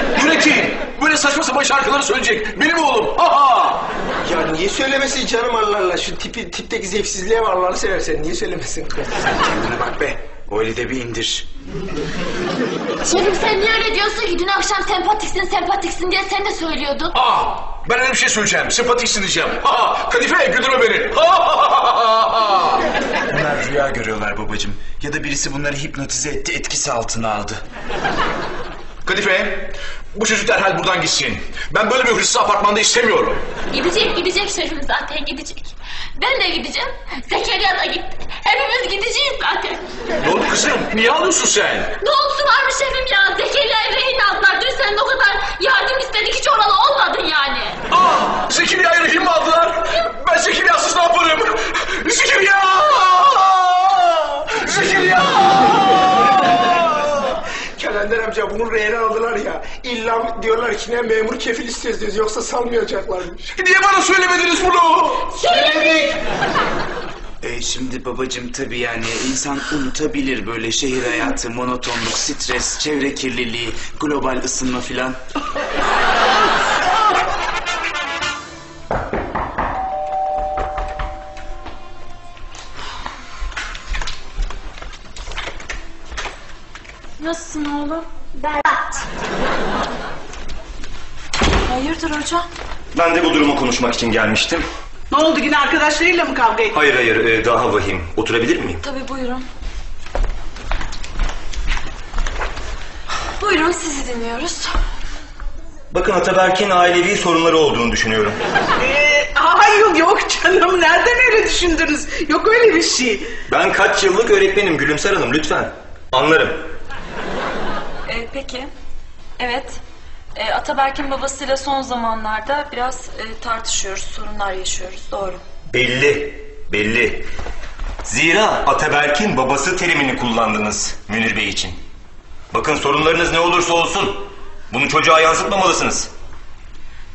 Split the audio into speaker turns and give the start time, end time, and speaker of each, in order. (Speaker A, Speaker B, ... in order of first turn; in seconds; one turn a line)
Speaker A: 0.1-3.9
Speaker B: 4.2-9.1
Speaker C: 9.2-11.5
Speaker D: 13.0-17.1
Speaker A: 17.1-22.8
Speaker C: 23.3-27.6
Speaker A: 29.0-33.4
Speaker D: 33.7-39.8
Speaker A: 40.2-42.0
Speaker D: 42.0-47.8
Speaker A: 47.9-57.1
Speaker B: 57.7-63.5
Speaker A: 63.5-65.3
Speaker D: 65.4-66.0
Speaker B: 65.4-66.2
Speaker C: 67.4-75.2
Speaker E: 87.2-88.0
Speaker E: 91.7-92.5
Speaker F: 92.9-94.7
Speaker G: 95.1-96.8
Speaker F: 96.7-98.8
Speaker E: 98.8-99.5
Speaker E: 103.4-104.8
Speaker F: 105.9-108.4
Speaker G: 108.8-113.3
Speaker F: 113.5-116.7
Speaker E: 118.1-118.7
Speaker E: 119.4-119.8
Speaker E: 120.3-125.4
Speaker F: 125.7-127.2
Speaker F: 128.1-131.8
Speaker F: 132.5-136.1